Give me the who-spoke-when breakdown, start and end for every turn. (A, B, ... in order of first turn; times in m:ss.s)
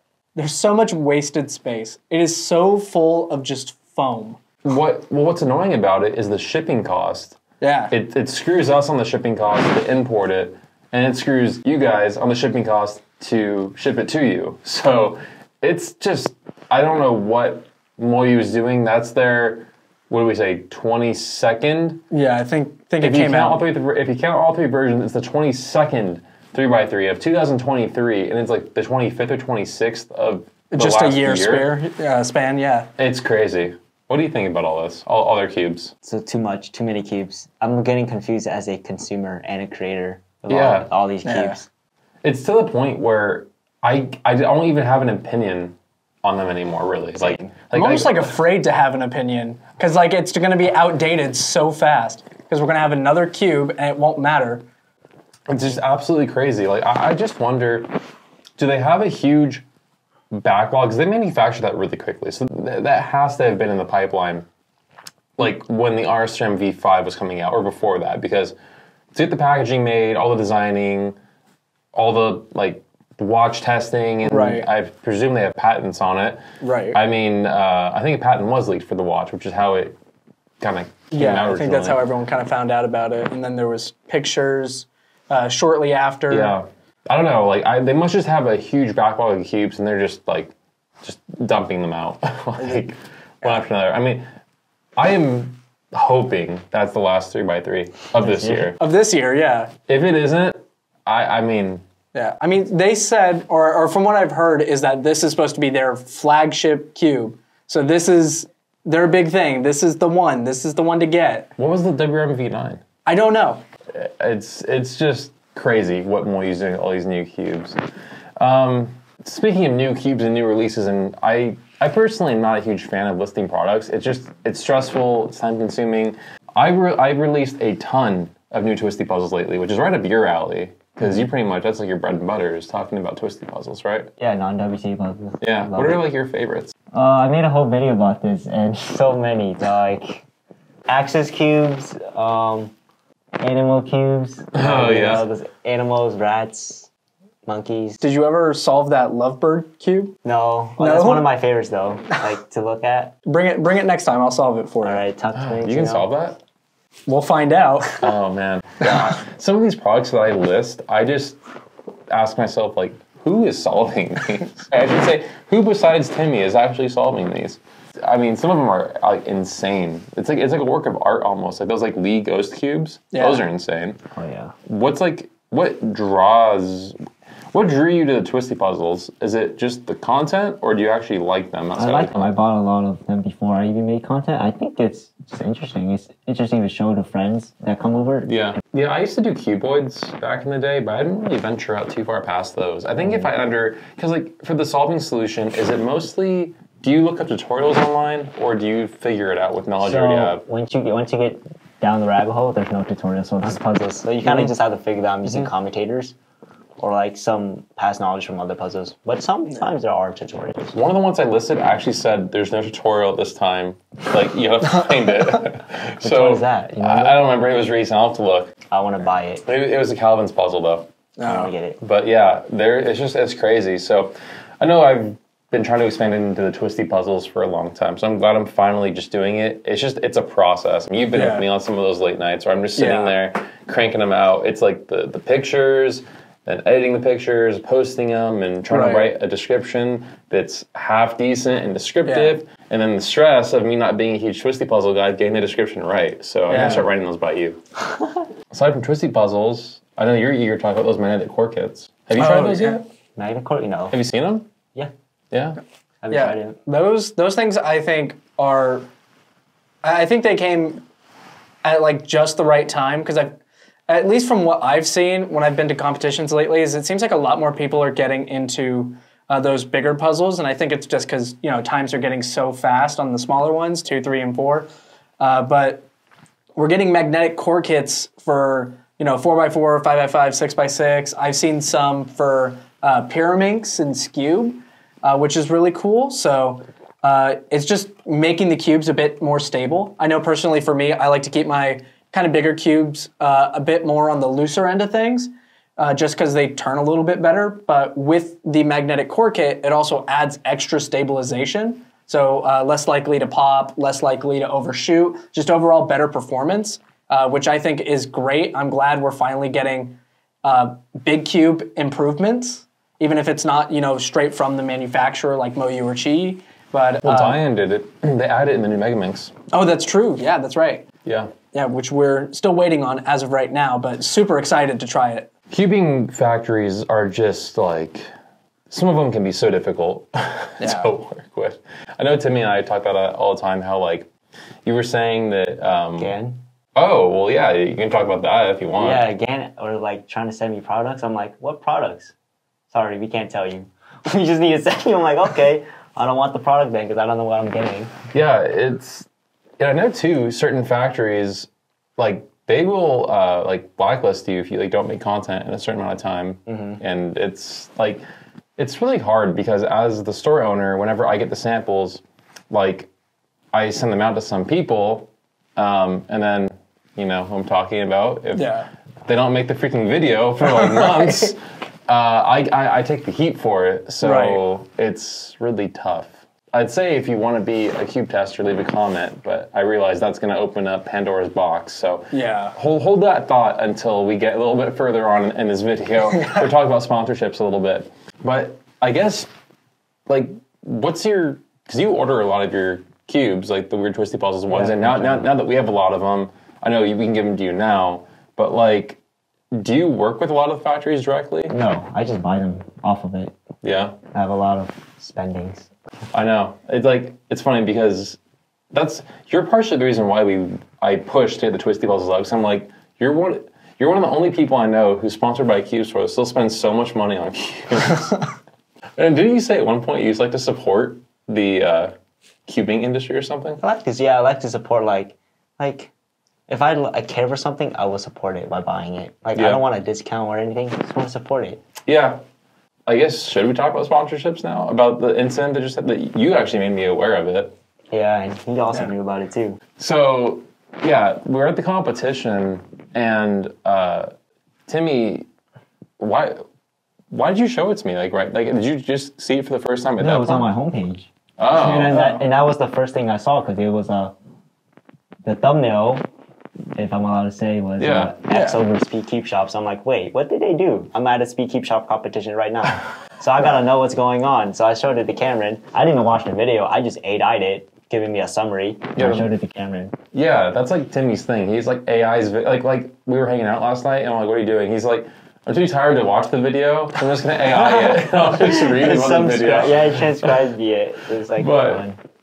0:00.4-0:04.4 A
0:04.6-0:07.4 B
0:07.6-0:07.9 A
0:07.9-0:22.0 B
0:22.1-0:23.6 A
0:23.0-0:31.7 B
0:30.7-0:32.9 A
0:33.0-0:35.9 B
0:36.0-0:41.7 C
0:40.5-0:40.9 B
0:41.2-0:41.6 A
0:42.2-0:48.4 B
0:47.2-0:47.5 C
0:47.7-0:54.6 A
0:55.5-0:57.9 B
0:58.6-0:59.6 B
1:00.3-1:04.4 B
1:05.4-1:08.5 B
1:09.1-1:11.2 B
1:11.9-1:19.9 B
1:14.2-1:14.7 A
1:16.6-1:17.0 A
1:20.6-1:22.0 B
1:21.1-1:26.5 A
1:26.3-1:34.2 B
1:35.0-1:38.8 B
1:38.2-1:38.7 C
1:38.8-1:39.7 A
1:39.9-1:41.8 B
1:42.1-1:51.5 A
1:51.6-1:52.8 B
1:53.0-1:53.6 A
1:53.9-1:57.8 B
1:58.4-2:14.1 B
2:14.2-2:16.0 C
2:15.4-2:16.7 B
2:16.9-2:20.2 C
2:20.9-2:22.7 C
2:23.4-2:26.9 C
2:24.5-2:25.2 B
2:27.4-2:28.0 C
2:28.0-2:30.1 A
2:30.2-2:33.1 C
2:30.8-2:31.3 A
2:33.2-2:35.0 A
2:34.8-2:36.1 C
2:35.3-2:36.4 B
2:37.1-2:38.1 A
2:38.0-2:41.4 B
2:38.8-2:39.1 A
2:42.1-2:54.0 B
2:53.1-2:53.4 A
2:54.1-2:54.5 C
2:54.6-2:57.0 B
2:57.5-3:02.3 B
3:01.8-3:08.4 C
3:08.2-3:20.4 B
3:13.0-3:13.3 C
3:19.8-3:26.2 C
3:26.8-3:30.8 C
3:30.7-3:38.5 B
3:36.0-3:37.2 C
3:38.7-3:39.4 C
3:39.4-3:40.9 B
3:41.2-3:41.5 A
3:41.2-3:41.8 C
3:41.8-4:07.6 B
3:51.1-3:51.4 A
3:52.8-3:53.1 A
3:58.7-3:59.1 A
4:02.0-4:02.4 A
4:06.5-4:06.9 A
4:08.5-4:12.8 B
4:12.1-4:12.8 A
4:13.1-4:14.0 C
4:13.9-4:14.5 B
4:15.3-4:15.6 B
4:16.0-4:16.6 C
4:16.1-4:18.9 A
4:19.8-4:20.8 A
4:21.6-4:23.4 A
4:23.9-4:34.7 A
4:35.2-4:35.8 A
4:36.6-5:17.4 A
5:17.0-5:19.3 B
5:19.5-5:20.8 A
5:21.0-5:21.3 B
5:21.5-5:25.3 A
5:25.5-5:28.1 B
5:28.7-5:34.1 B
5:30.6-5:30.9 A
5:34.6-5:36.1 B
5:36.0-5:36.4 C
5:36.7-5:39.0 B
5:38.8-5:42.1 C
5:42.7-5:48.0 C
5:48.1-5:49.1 B
5:49.6-5:58.0 B
5:56.5-5:56.8 C
5:58.6-6:02.9 B
6:03.5-6:08.5 B
6:08.3-6:08.7 A
6:09.0-6:29.3 B
6:10.4-6:11.3 A
6:14.0-6:14.4 A
6:22.1-6:22.5 A
6:30.1-6:39.0 B
6:34.5-6:35.3 C
6:39.5-6:41.5 B
6:41.5-6:43.4 C
6:43.6-6:44.0 B
6:44.1-6:45.7 C
6:46.1-6:48.2 B
6:48.7-6:58.2 B
6:59.0-7:01.9 B
7:02.4-7:03.6 B
7:03.6-7:05.9 C
7:06.5-7:11.6 C
7:09.3-7:09.6 B
7:11.8-7:12.2 B
7:12.9-7:17.5 B
7:17.9-7:19.6 C
7:19.8-7:24.1 B
7:24.7-7:25.3 B
7:26.0-7:26.4 B
7:27.1-7:30.5 B
7:30.0-7:34.1 C
7:31.4-7:32.0 B
7:31.9-7:32.2 A
7:35.2-7:36.0 C
7:36.8-7:50.0 C
7:37.8-7:38.1 B
7:38.3-7:38.6 A
7:49.0-7:49.3 B
7:50.1-8:00.4 B
7:57.5-8:02.0 C
8:01.4-8:01.8 B